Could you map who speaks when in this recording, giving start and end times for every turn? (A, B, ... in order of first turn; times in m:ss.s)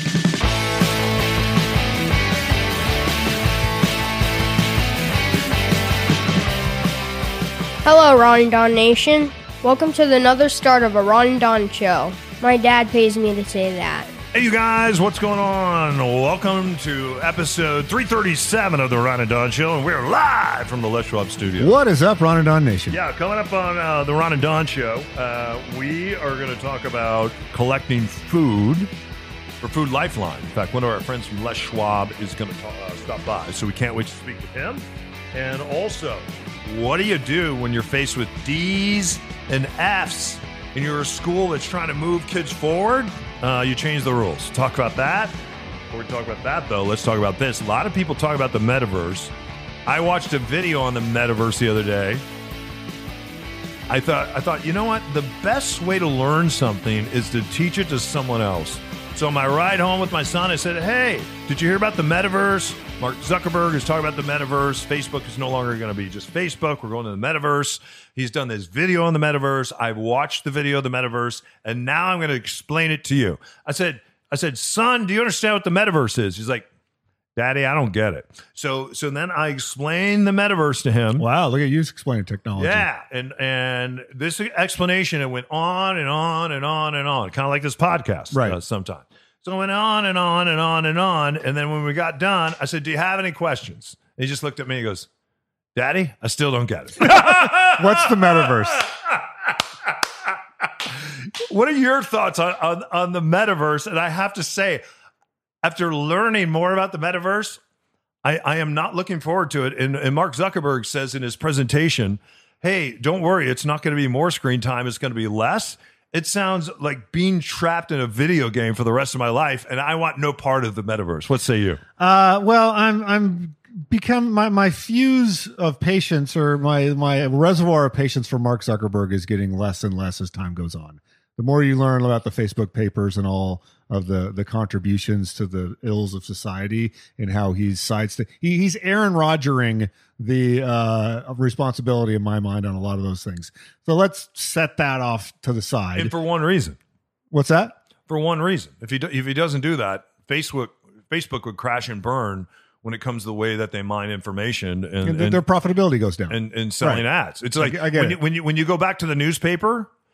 0:07.8-0:14.1 A
0:14.3-0:21.7 B
0:21.6-0:23.0 C
0:22.9-0:28.9 B
0:29.6-0:45.3 B
0:45.9-0:49.3 B
0:49.8-0:52.2 B
0:53.9-1:16.7 B
1:17.4-1:21.2 B
1:21.2-1:22.8 C
1:22.6-1:35.1 B
1:28.3-1:28.6 C
1:35.7-1:44.8 B
1:37.0-1:38.8 C
1:45.6-1:47.6 B
1:48.2-2:01.8 B
2:02.0-2:26.1 C
2:25.9-2:26.8 B
2:27.3-2:27.7 C
2:28.1-2:35.4 B
2:35.0-2:38.2 C
2:36.3-2:39.9 B